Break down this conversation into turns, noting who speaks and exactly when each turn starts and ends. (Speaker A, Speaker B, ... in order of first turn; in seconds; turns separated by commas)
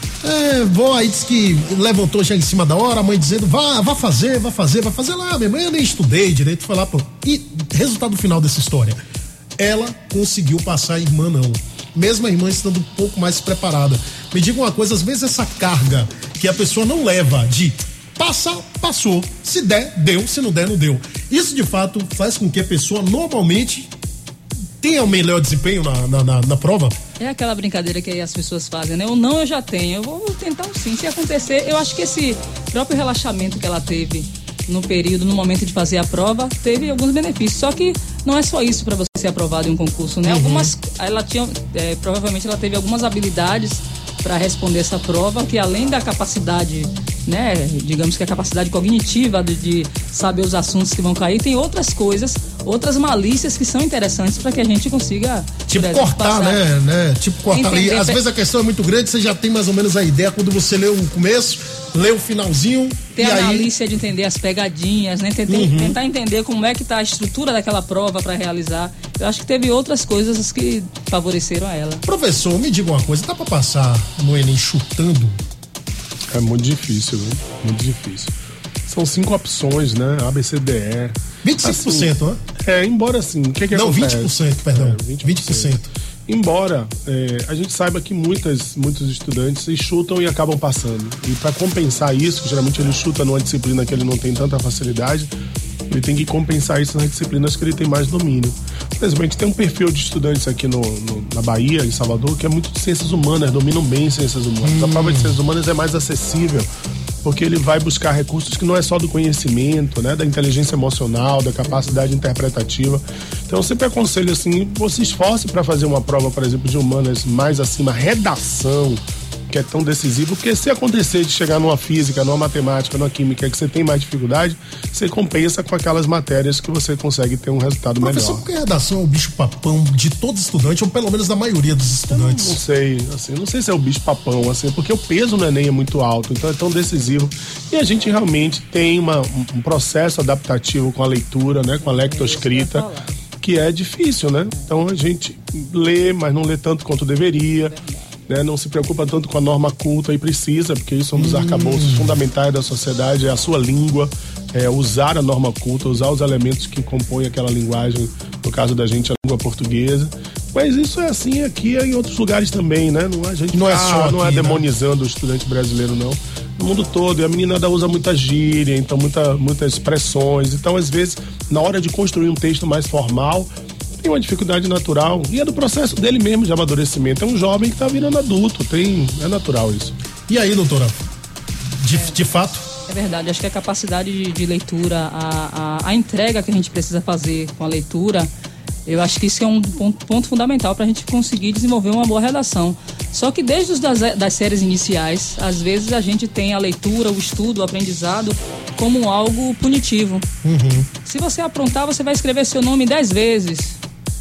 Speaker A: 0.2-9.0, Speaker A: 9.6-23.9, Speaker A: 24.8-27.0, Speaker B: 27.2-56.6, Speaker A: 40.2-40.7, Speaker A: 55.7-63.7, Speaker B: 57.5-58.2, Speaker B: 63.1-72.0, Speaker A: 65.5-66.0, Speaker A: 72.1-75.4, Speaker C: 76.3-78.3, Speaker C: 78.9-95.3, Speaker A: 81.4-82.4, Speaker A: 83.7-85.9, Speaker C: 95.9-106.7, Speaker A: 104.6-105.3, Speaker C: 107.2-128.4, Speaker A: 128.0-132.6, Speaker C: 132.1-142.9, Speaker B: 141.8-143.2, Speaker C: 143.4-147.8, Speaker B: 147.7-148.2, Speaker C: 148.3-180.0, Speaker A: 151.2-152.2, Speaker A: 163.5-164.6, Speaker A: 180.3-180.9, Speaker A: 181.8-182.7, Speaker B: 182.9-188.3, Speaker B: 188.9-200.2, Speaker A: 200.4-200.9, Speaker B: 201.1-203.8